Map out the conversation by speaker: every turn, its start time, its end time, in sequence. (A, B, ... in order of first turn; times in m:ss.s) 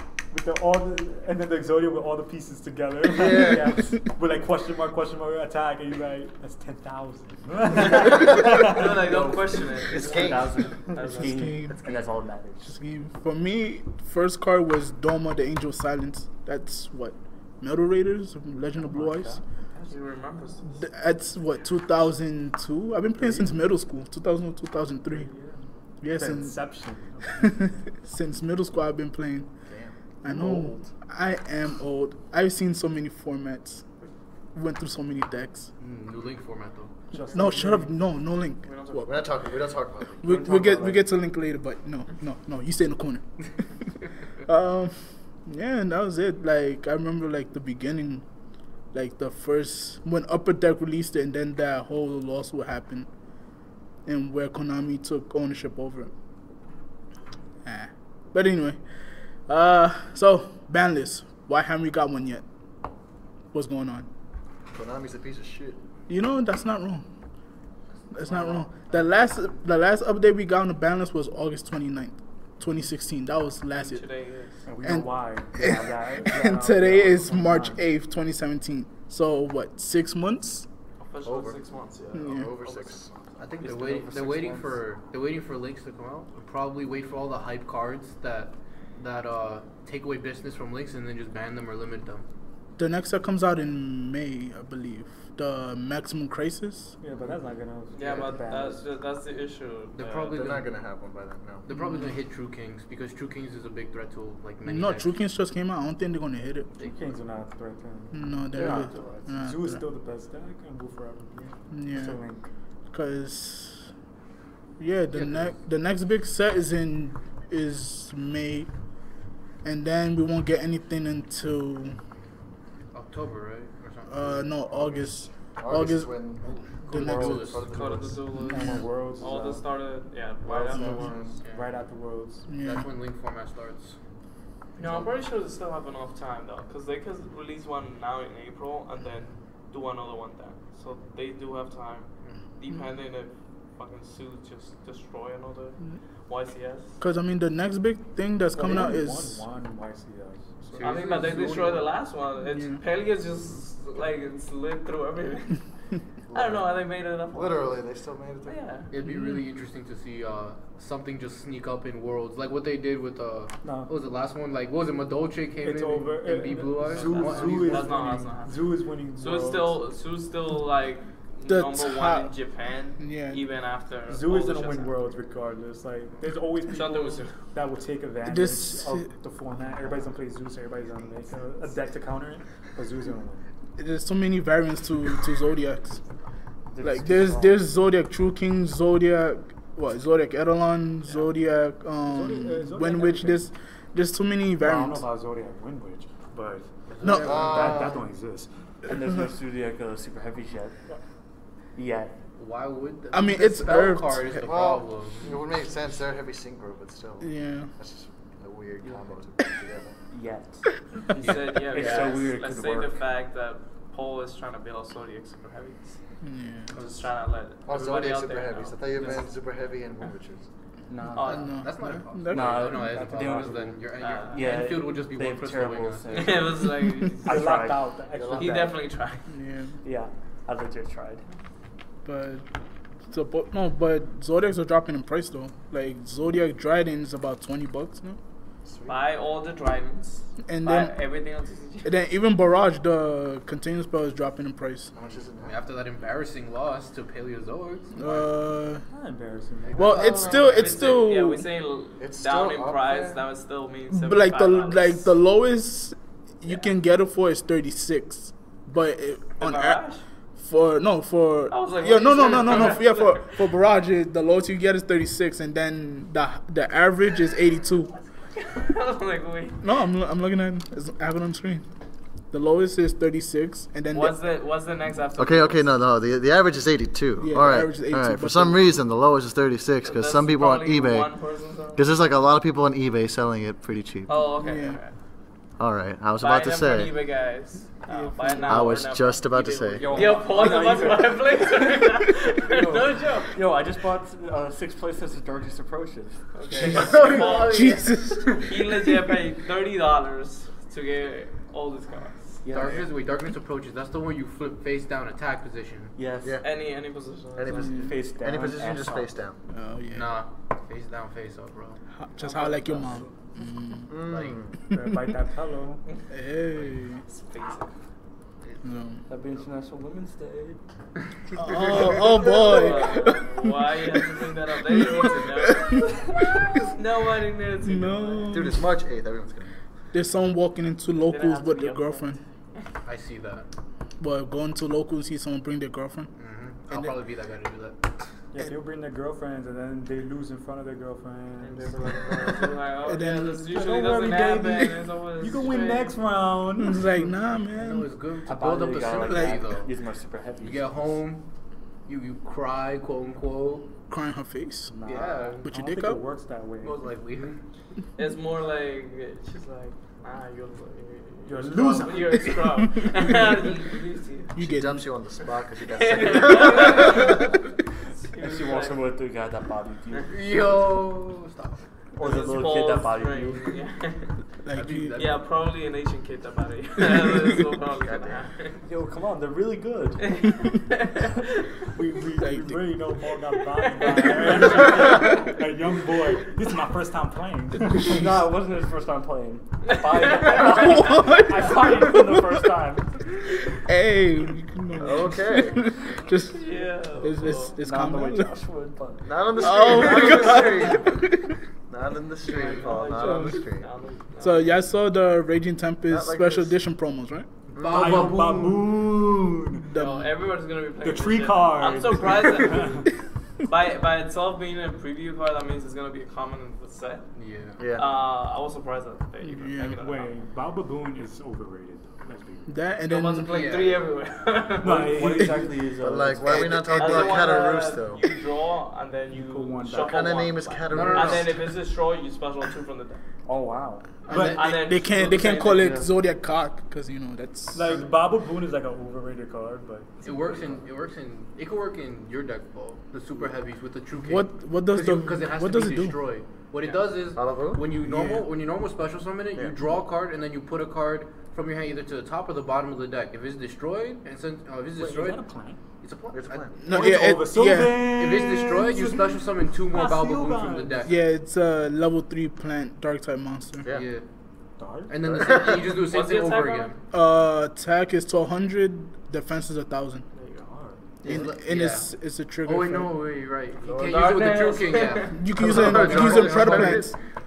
0:00.3-0:08.9 A
0:03.1-0:03.8 B
0:07.7-0:08.2 C
0:07.8-0:12.0 D
0:09.0-0:12.7 C
0:10.0-0:10.5 B
0:11.2-0:11.7 E
0:12.6-0:19.4 E
0:18.8-0:20.0 A
0:19.9-0:20.7 D
0:20.7-0:25.3 E
0:23.2-0:23.5 A
0:25.1-0:27.9 A
0:26.0-0:26.7 E
0:27.4-0:29.5 E
0:29.7-0:29.9 B
0:30.2-0:33.8 E
0:34.5-0:35.7 E
0:35.8-0:37.1 F
0:37.1-0:37.9 A
0:37.3-0:39.1 E
0:38.6-0:39.3 D
0:39.0-0:40.4 B
0:40.2-0:43.5 E
0:40.2-0:41.0 C
0:44.4-0:48.2 E
0:48.9-0:53.1 E
0:54.0-0:56.1 E
0:57.6-1:02.4 E
1:03.5-1:04.1 E
1:04.7-1:05.8 B
1:06.1-1:07.0 E
1:08.1-1:14.0 E
1:13.8-1:14.6 D
1:14.6-1:17.8 A
1:14.8-1:20.7 E
1:21.0-1:23.2 D
1:21.2-1:23.4 B
1:22.1-1:22.5 E
1:23.4-1:32.2 F
1:23.6-1:24.8 C
1:32.8-1:36.9 E
1:37.0-1:38.9 A
1:37.9-1:40.5 D
1:39.9-1:40.7 F
1:40.3-1:41.6 B
1:41.6-1:45.1 F
1:41.7-1:42.1 E
1:44.6-1:46.8 E
1:46.8-1:47.0 F
1:46.8-1:52.5 A
1:48.1-1:49.8 E
1:48.6-1:49.1 F
1:51.7-1:52.2 E
1:52.9-1:53.9 E
1:54.8-1:58.7 E
1:55.1-1:55.6 F
1:59.6-2:02.0 E
2:02.9-2:05.0 F
2:04.1-2:06.3 E
2:05.6-2:06.5 B
2:06.4-2:08.0 F
2:06.9-2:07.7 E
2:06.9-2:07.4 C
2:07.1-2:08.2 B
2:07.7-2:11.1 D
2:08.3-2:08.8 E
2:08.4-2:09.6 A
2:10.5-2:12.4 A
2:10.6-2:11.4 C
2:11.4-2:11.7 F
2:12.5-2:12.8 E
2:12.6-2:14.0 F
2:14.8-2:27.0 D
2:27.0-2:29.4 E
2:28.5-2:31.5 A
2:30.7-2:31.9 F
2:30.8-2:35.6 D
2:32.5-2:32.8 E
2:36.3-2:36.7 B
2:36.3-2:37.8 D
2:37.3-2:38.6 B
2:38.4-2:38.9 D
2:38.9-2:48.2 F
2:43.6-2:43.9 A
2:45.6-2:49.8 A
2:46.8-2:55.0 D
2:51.5-2:52.3 E
2:53.0-2:53.4 E
2:54.1-3:03.4 A
2:56.7-2:57.4 D
2:58.2-2:59.1 E
3:03.8-3:06.0 E
3:06.7-3:07.6 C
3:06.8-3:15.0 E
3:12.0-3:13.4 A
3:14.6-3:18.6 A
3:16.9-3:18.0 F
3:17.0-3:17.3 E
3:17.2-3:18.0 B
3:18.8-3:20.8 C
3:21.7-3:22.2 C
3:22.4-3:25.3 F
3:23.1-3:24.4 E
3:24.4-3:30.0 B
3:27.2-3:27.7 E
3:30.1-3:33.0 C
3:31.2-3:36.0 D
3:31.7-3:32.2 F
3:36.2-3:36.7 E
3:36.7-3:38.9 D
3:37.6-3:40.5 B
3:40.9-3:41.6 C
3:41.1-3:41.5 D
3:41.2-3:46.6 F
3:41.3-3:43.0 E
3:42.3-3:48.6 C
3:44.0-3:44.4 D
3:46.1-3:47.4 D
3:47.2-3:48.8 A
3:48.3-3:49.3 D
3:49.3-3:49.7 E
3:49.8-3:51.2 C
3:52.0-3:52.4 E
3:53.1-3:58.2 E
3:58.6-3:59.0 B
3:58.9-4:02.0 D
4:00.4-4:01.0 E
4:01.8-4:04.9 E
4:04.9-4:05.6 B
4:05.4-4:08.3 F
4:08.0-4:08.8 E
4:08.9-4:10.4 A
4:09.6-4:10.5 F
4:09.8-4:11.5 E
4:09.8-4:15.1 D
4:12.0-4:13.2 B
4:13.9-4:19.8 E
4:19.4-4:20.0 D
4:20.4-4:27.9 E
4:21.5-4:23.5 D
4:28.2-4:29.6 D
4:29.6-4:31.6 E
4:32.3-4:34.2 E
4:33.9-4:35.8 D
4:35.2-4:41.1 B
4:37.2-4:38.7 E
4:39.8-4:41.9 D
4:41.7-4:44.3 B
4:44.0-4:45.0 D
4:44.4-4:44.8 E
4:45.6-4:46.9 B
4:46.2-4:53.4 D
4:47.9-4:48.7 E
4:48.5-4:50.1 B
4:49.8-4:51.7 C
4:52.5-4:57.3 C
4:56.3-5:02.4 D
4:56.6-4:58.0 F
4:56.9-4:57.2 B
4:57.4-4:58.4 E
5:02.4-5:02.9 C
5:02.5-5:06.0 F
5:06.0-5:06.4 C
5:06.2-5:06.5 B
5:06.4-5:07.9 D
5:07.3-5:09.4 B
5:07.6-5:09.2 C
5:09.5-5:10.2 E
5:09.9-5:11.8 F
5:11.9-5:13.9 E
5:12.5-5:12.9 D
5:12.6-5:13.1 C
5:13.9-5:14.5 B
5:14.1-5:14.4 F
5:14.7-5:15.8 A
5:14.7-5:15.0 E
5:16.1-5:17.0 E
5:17.0-5:17.7 D
5:18.6-5:19.0 E
5:19.1-5:20.6 C
5:21.4-5:24.0 E
5:21.8-5:28.5 D
5:24.8-5:25.4 E
5:27.6-5:28.7 E
5:28.3-5:29.6 B
5:29.9-5:32.2 E
5:31.1-5:32.6 D
5:32.8-5:33.5 F
5:34.0-5:36.1 E
5:36.2-5:37.8 F
5:36.7-5:37.0 E
5:38.3-5:42.4 A
5:41.4-5:46.0 D
5:42.8-5:43.5 E
5:43.5-5:47.0 A
5:46.6-5:47.9 E
5:47.6-5:49.8 F
5:48.2-5:51.0 C
5:49.0-5:49.3 E
5:50.4-5:51.2 F
5:51.8-5:53.7 F
5:53.9-5:54.7 E
5:54.7-5:55.4 C
5:54.8-5:55.4 F
5:55.4-5:56.0 E
5:55.4-5:56.8 A
5:56.6-5:57.4 F
5:58.0-6:04.3 D
6:01.2-6:02.6 A
6:04.4-6:04.9 E
6:04.4-6:07.0 B
6:05.2-6:07.3 D
6:08.0-6:08.8 D
6:08.2-6:10.1 C
6:10.1-6:11.6 F
6:12.0-6:13.5 C
6:12.0-6:14.2 D
6:14.4-6:15.0 E
6:14.5-6:15.2 F
6:14.9-6:18.6 D
6:17.8-6:18.2 B
6:18.6-6:20.0 C
6:20.0-6:21.4 D
6:21.7-6:28.0 A
6:22.2-6:22.6 E
6:23.8-6:25.3 D
6:27.8-6:33.4 C
6:29.6-6:30.9 D
6:30.5-6:32.3 E
6:33.6-6:36.4 E
6:34.8-6:35.7 B
6:35.9-6:37.6 D
6:37.0-6:38.3 E
6:37.6-6:39.8 C
6:39.0-6:40.9 B
6:39.4-6:41.3 E
6:41.7-6:43.7 B
6:42.2-6:44.5 D
6:43.0-6:43.5 E
6:44.2-6:47.2 E
6:45.9-6:46.6 B
6:47.5-6:48.6 F
6:47.5-6:48.2 B
6:47.6-6:49.7 A
6:49.7-6:50.1 E
6:49.7-6:52.8 D
6:50.8-6:52.9 A
6:53.4-6:57.1 D
6:57.1-6:57.6 F
6:57.6-6:57.9 B
6:57.7-7:00.1 D
6:59.2-6:59.8 E
6:59.7-7:02.6 A
7:02.5-7:03.4 E
7:02.8-7:05.2 D
7:03.3-7:03.8 F
7:04.6-7:05.5 A
7:04.6-7:07.1 C
7:05.8-7:08.0 B
7:06.7-7:13.0 D
7:09.1-7:10.0 A
7:09.7-7:11.4 B
7:10.7-7:11.3 F
7:13.2-7:13.9 C
7:14.1-7:17.8 E
7:14.1-7:14.4 F
7:14.1-7:15.9 D
7:17.5-7:20.3 A
7:20.0-7:35.2 F
7:24.0-7:26.0 E
7:27.1-7:27.7 B
7:27.8-7:28.2 E
7:34.8-7:35.6 A
7:35.8-7:36.9 F
7:36.1-7:36.6 B
7:36.6-7:37.8 E
7:36.7-7:40.9 A
7:38.0-7:40.9 F
7:40.8-7:43.7 E
7:43.6-7:43.9 B
7:43.7-7:44.0 F
7:44.6-7:44.9 A
7:44.9-7:46.8 F
7:45.0-7:45.8 B
7:45.8-7:46.7 D
7:46.9-7:50.0 E
7:50.1-7:50.5 D
7:50.5-7:50.8 A
7:51.0-7:52.9 E
7:51.0-7:51.4 B
7:51.1-7:51.9 F
7:52.4-7:56.8 F
7:53.6-7:55.3 D
7:55.1-7:56.9 E
7:55.3-7:56.9 B